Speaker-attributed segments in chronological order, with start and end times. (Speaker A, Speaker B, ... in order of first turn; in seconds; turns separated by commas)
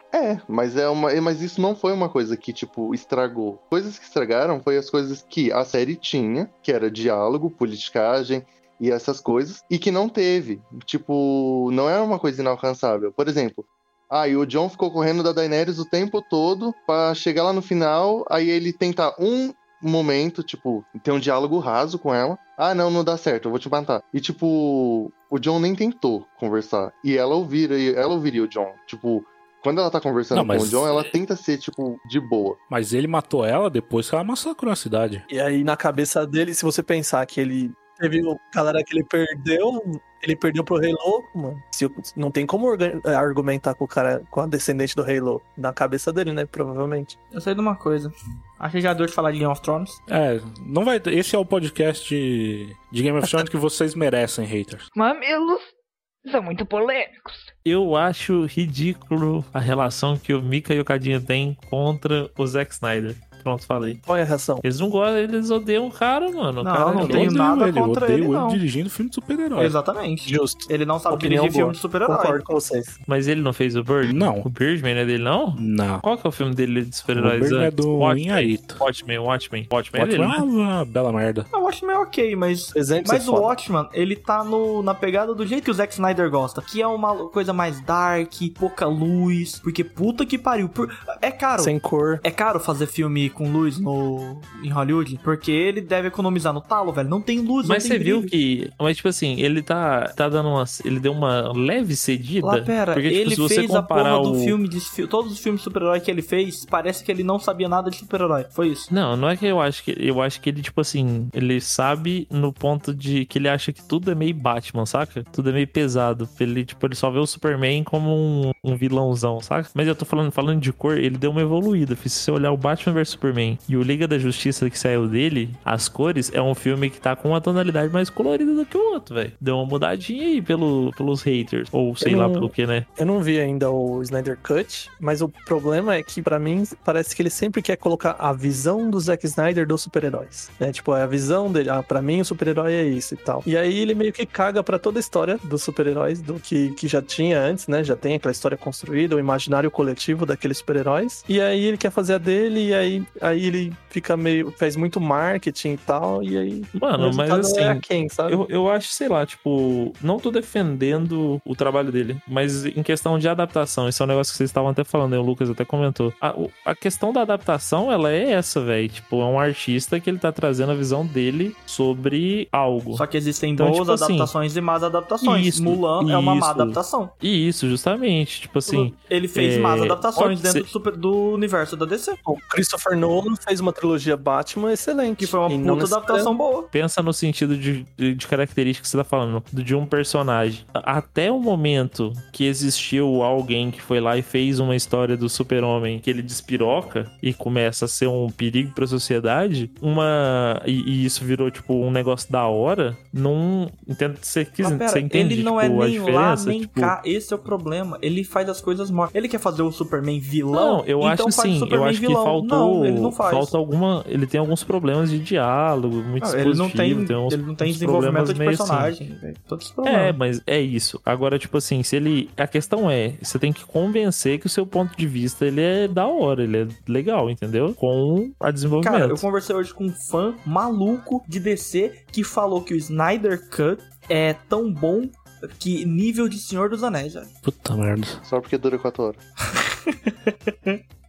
Speaker A: 0.1-32.6, Speaker B: 30.3-30.9, Speaker B: 32.7-35.2, Speaker C: 35.3-47.1, Speaker D: 47.3-50.0, Speaker B: 50.1-54.9, Speaker E: 54.9-55.7, Speaker E: 56.2-57.5, Speaker F: 57.6-64.0, Speaker C: 64.0-64.6, Speaker F: 64.6-67.3, Speaker D: 66.6-68.6, Speaker C: 66.8-67.3, Speaker B: 67.0-69.7, Speaker D: 69.6-72.4, Speaker C: 70.2-73.0, Speaker F: 73.1-80.4, Speaker B: 74.0-74.5, Speaker B: 75.6-76.0, Speaker B: 77.1-78.8, Speaker B: 79.9-81.5, Speaker D: 81.5-98.3, Speaker C: 82.7-83.5, Speaker C: 91.6-92.2, Speaker F: 97.6-104.5, Speaker D: 102.4-108.9, Speaker F: 108.9-132.8, Speaker C: 132.0-158.4, Speaker F: 156.7-173.0, Speaker D: 172.9-177.1, Speaker F: 173.6-174.3, Speaker F: 175.2-180.6, Speaker D: 178.7-182.2, Speaker C: 182.2-186.3, Speaker D: 185.2-186.7, Speaker F: 186.7-206.9, Speaker D: 204.6-213.5, Speaker F: 210.5-218.9, Speaker D: 216.2-220.2, Speaker F: 219.8-229.2, Speaker D: 228.8-237.3, Speaker B: 237.4-238.2, Speaker A: 238.2-239.2, Speaker D: 239.5-240.8